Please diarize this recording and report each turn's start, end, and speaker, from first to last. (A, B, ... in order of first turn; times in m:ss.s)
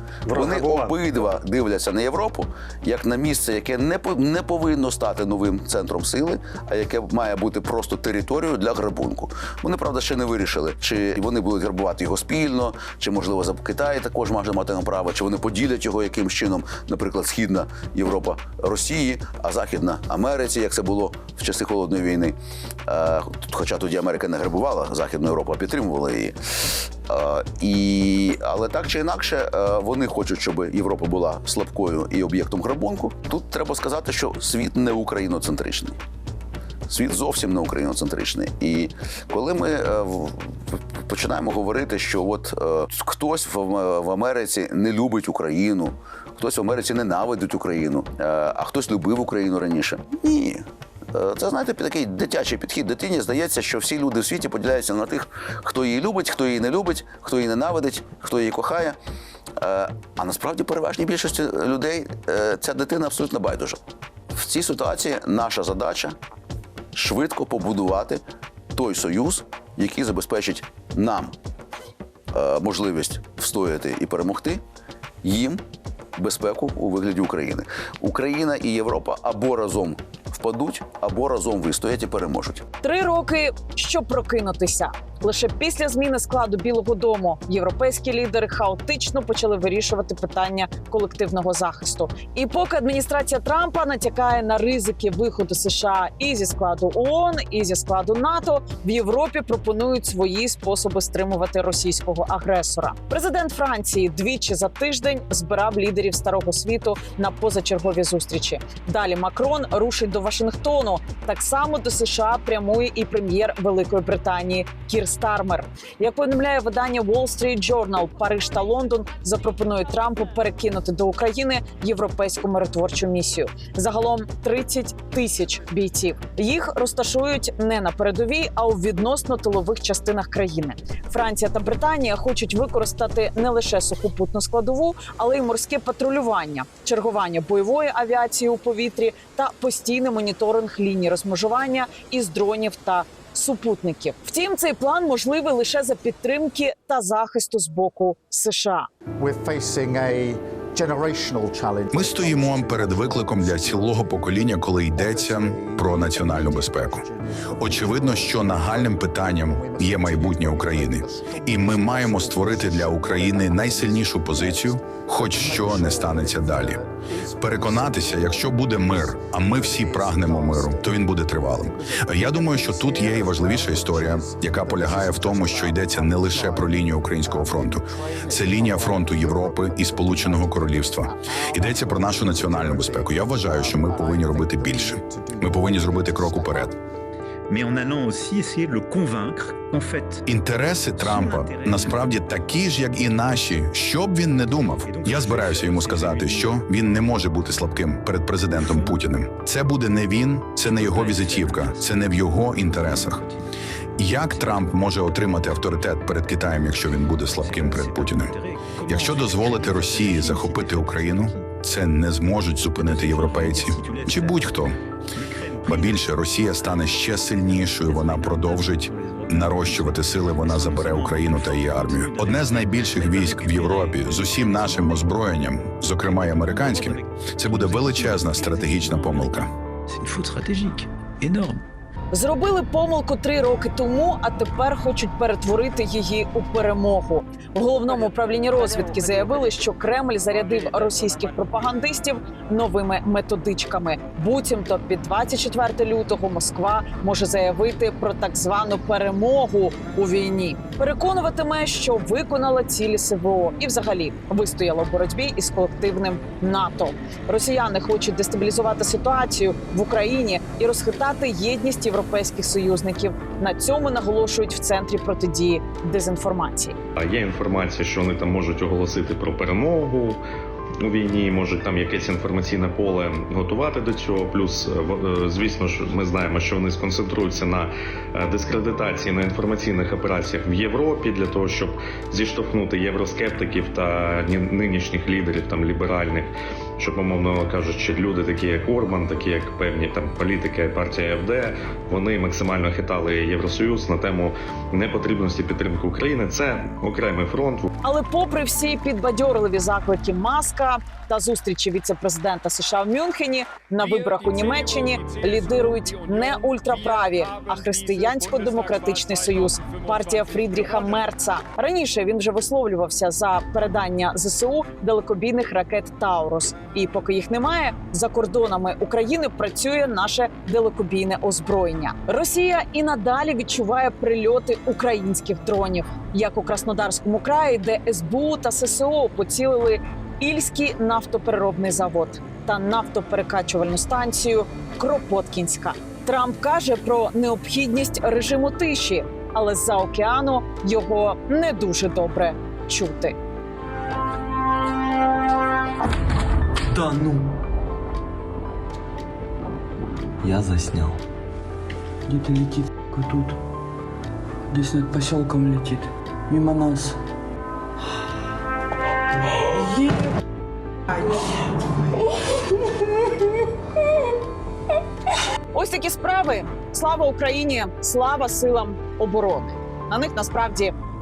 0:00.3-0:00.8 A
0:00.4-0:22.4 B
0:22.9-0:36.0 B
0:36.9-0:59.0 B
0:59.6-1:03.8 B
1:04.3-1:06.2 B
1:06.9-1:08.2 B
1:08.7-1:11.3 B
1:12.3-1:14.6 B
1:15.2-1:15.6 B
1:16.2-1:22.6 B
1:22.8-2:28.9 C
2:29.2-2:34.0 A
2:31.9-2:37.0 D
2:34.9-3:06.7 A
2:37.6-2:46.8 D
2:47.4-3:06.7 D
3:07.5-3:10.2 A
3:10.2-3:23.2 D
3:11.0-3:12.2 A
3:14.8-3:16.6 A
3:18.6-3:18.9 A
3:20.7-3:21.9 A
3:22.8-3:23.1 A
3:24.0-3:28.3 D
3:24.3-3:24.8 A
3:27.3-3:31.2 A
3:28.9-3:34.7 D
3:32.7-3:34.6 A
3:35.2-3:36.0 A
3:35.6-3:49.5 D
3:37.3-3:45.0 A
3:46.7-3:51.5 A
3:52.1-4:26.8 C
4:27.0-4:30.2 E
4:30.8-4:57.7 E
4:57.8-5:43.1 C
5:46.8-5:47.2 F
5:50.3-5:50.9 F
5:52.1-5:53.3 F
5:54.5-5:56.9 F
6:05.5-6:10.7 C